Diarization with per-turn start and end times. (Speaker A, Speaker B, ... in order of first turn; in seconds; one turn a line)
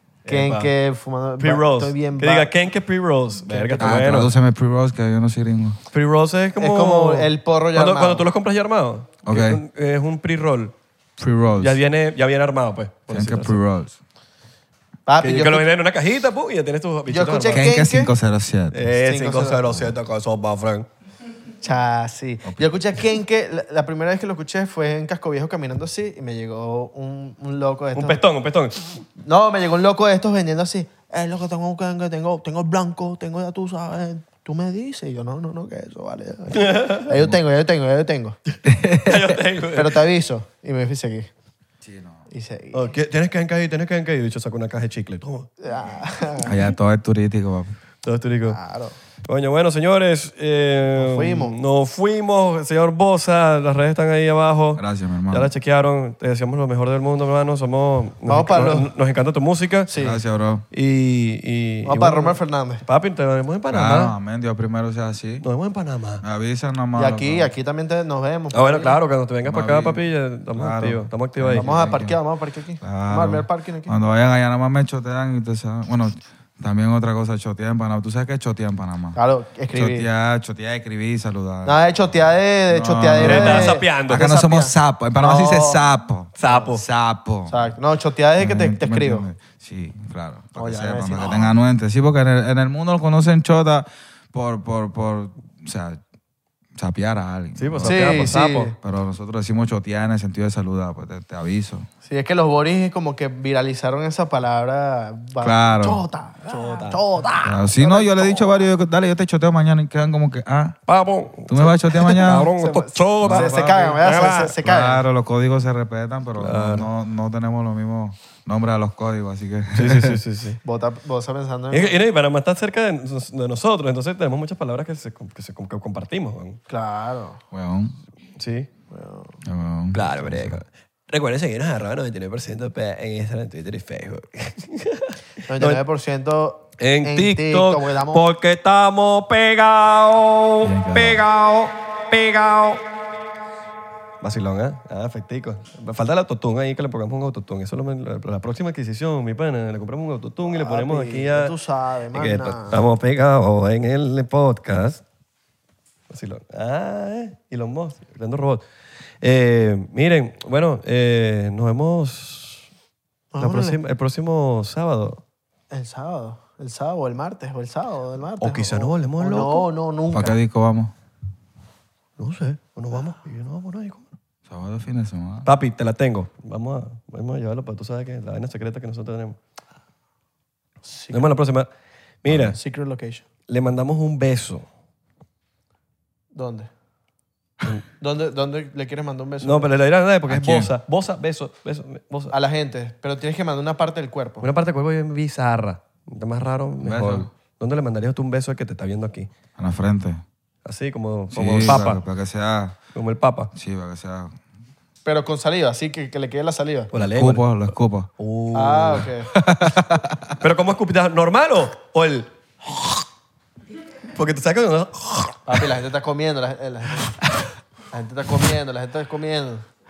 Speaker A: 0.2-0.7
Speaker B: 0.3-2.5
Speaker A: 1.4-4.3
Speaker B: 3.4-4.1
Speaker C: 3.8-5.8
Speaker A: 5.9-10.7
Speaker B: 6.6-8.3
Speaker C: 9.2-9.6
Speaker C: 11.2-11.8
Speaker A: 11.6-13.6
Speaker C: 13.1-14.0
Speaker B: 15.1-15.7
Speaker A: 15.2-17.7
Speaker B: 17.1-18.1
Speaker C: 17.5-18.8
Speaker A: 18.7-20.9
Speaker B: 19.0-19.9
Speaker B: 21.6-28.2
Speaker C: 22.4-22.7
Speaker A: 27.9-29.0
Speaker B: 29.2-38.4
Speaker A: 36.5-37.1
Speaker C: 37.1-37.4
Speaker C: 38.6-39.4
Speaker A: 39.0-40.0
Speaker B: 39.7-41.3
Speaker C: 41.8-42.2
Speaker B: 42.3-42.9
Speaker A: 42.7-45.5
Speaker B: 45.6-46.6
Speaker C: 46.4-47.7
Speaker A: 48.0-48.6
Speaker B: 48.5-48.9
Speaker A: 49.3-59.9
Speaker B: 51.0-51.6
Speaker C: 54.8-55.5
Speaker B: 58.2-58.9
Speaker B: 59.9-60.2
Speaker C: 59.9-60.6
Speaker A: 60.7-64.1
Speaker B: 61.9-62.8
Speaker C: 63.7-65.4
Speaker A: 65.4-66.2
Speaker C: 66.2-67.5
Speaker B: 67.0-69.0
Speaker A: 68.5-71.7
Speaker C: 69.4-72.2
Speaker B: 71.5-73.9
Speaker C: 72.8-79.2
Speaker B: 79.2-80.1
Speaker C: 79.7-87.7
Speaker B: 81.6-85.8
Speaker A: 83.2-84.3
Speaker A: 86.4-86.8
Speaker B: 86.4-86.7
Speaker B: 87.5-89.2
Speaker C: 88.4-96.0
Speaker B: 90.5-91.5
Speaker C: 96.8-101.9
Speaker A: 97.6-98.7
Speaker B: 97.8-98.7
Speaker B: 102.0-108.6
Speaker C: 105.4-106.0
Speaker A: 106.5-107.0
Speaker C: 107.4-110.8
Speaker A: 110.9-114.5
Speaker C: 111.5-112.5
Speaker B: 112.2-115.0
Speaker C: 113.2-113.9
Speaker C: 114.6-120.2
Speaker A: 116.4-116.9
Speaker A: 119.7-120.6
Speaker B: 120.6-122.0
Speaker A: 121.7-126.6
Speaker B: 126.7-127.4
Speaker C: 127.5-128.0
Speaker A: 128.4-128.7
Speaker B: 128.9-129.4
Speaker C: 129.4-130.6
Speaker A: 129.9-135.8
Speaker B: 135.4-138.3
Speaker A: 136.8-142.8
Speaker C: 140.6-141.2
Speaker A: 144.2-151.5
Speaker B: 150.4-152.8
Speaker A: 152.1-155.0
Speaker A: 156.1-158.6
Speaker A: 159.2-162.7
Speaker B: 163.3-163.8
Speaker A: 163.4-165.2
Speaker B: 165.7-170.4
Speaker A: 168.4-169.7
Speaker C: 170.1-170.9
Speaker A: 172.2-174.1
Speaker C: 174.4-175.5
Speaker A: 175.4-179.4
Speaker B: 180.8-181.3
Speaker A: 181.1-181.7
Speaker A: 182.2-182.6
Speaker C: 182.3-182.5
Speaker B: 182.5-183.2
Speaker A: 183.5-184.7
Speaker B: 186.3-186.7
Speaker B: 188.0-189.7
Speaker A: 189.4-192.3
Speaker C: 190.3-190.7
Speaker B: 192.3-194.4
Speaker A: 194.4-199.3
Speaker C: 196.8-197.3
Speaker C: 199.6-200.2
Speaker A: 200.6-202.0
Speaker C: 201.3-202.8
Speaker A: 202.9-203.5
Speaker C: 203.5-204.4
Speaker B: 205.1-206.9
Speaker A: 206.9-207.4
Speaker C: 207.0-208.1
Speaker A: 208.2-209.1
Speaker B: 208.5-209.3
Speaker C: 209.3-210.4
Speaker A: 210.4-213.0
Speaker A: 214.1-215.7
Speaker B: 215.5-217.2
Speaker B: 217.9-219.6